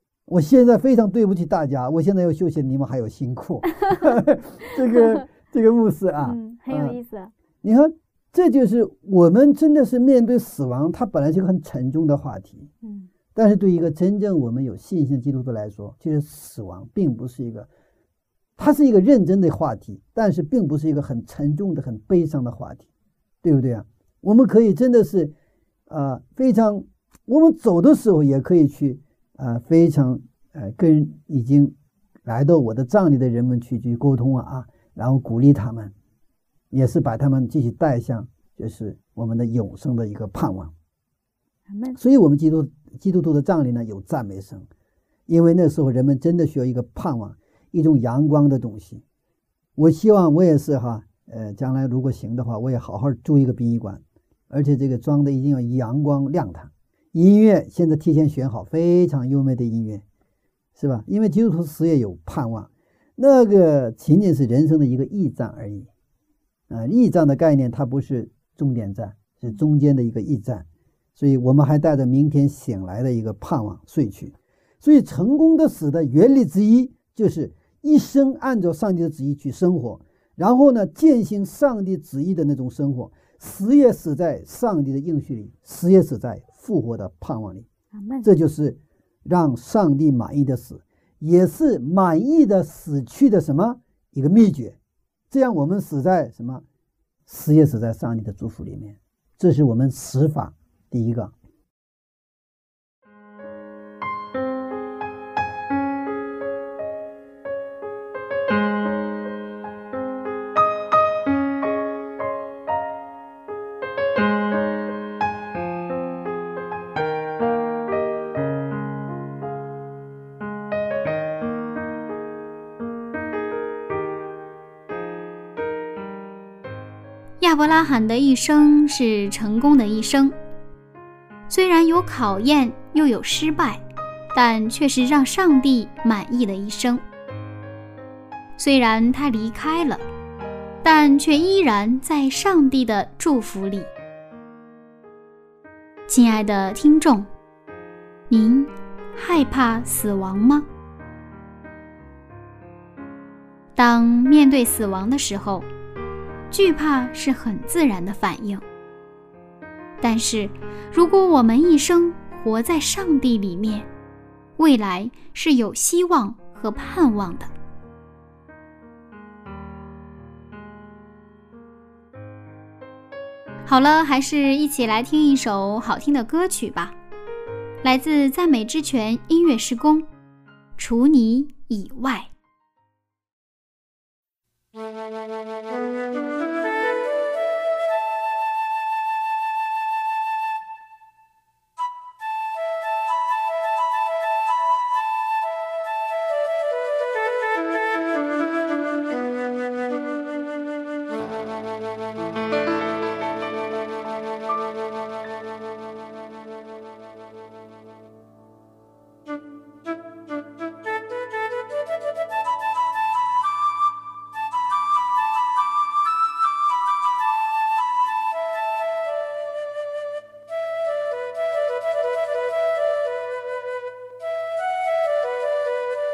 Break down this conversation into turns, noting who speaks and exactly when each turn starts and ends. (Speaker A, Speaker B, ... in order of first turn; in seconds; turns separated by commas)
Speaker A: 0.3-7.0, Speaker B: 6.2-7.3, Speaker A: 7.6-12.7, Speaker B: 12.8-13.1, Speaker A: 13.3-17.7, Speaker A: 18.6-22.9, Speaker A: 23.4-25.3, Speaker A: 25.9-31.7, Speaker A: 32.2-35.9, Speaker A: 36.7-40.7, Speaker B: 41.7-42.0, Speaker A: 42.0-44.7, Speaker A: 45.3-49.0, Speaker A: 49.8-60.0, Speaker A: 60.8-65.9, Speaker A: 66.7-87.7, Speaker B: 88.0-88.3, Speaker A: 88.2-94.8, Speaker A: 95.3-96.6, Speaker A: 97.3-101.3, Speaker C: 127.4-130.3, Speaker C: 131.5-133.8, Speaker C: 134.3-137.0, Speaker C: 138.6-140.0, Speaker C: 140.8-143.9, Speaker C: 146.1-147.3, Speaker C: 148.3-150.7, Speaker C: 153.8-155.7, Speaker C: 156.5-158.6, Speaker C: 160.0-163.9, Speaker C: 164.6-167.5, Speaker C: 173.7-177.0, Speaker C: 177.8-180.1, Speaker C: 180.8-182.3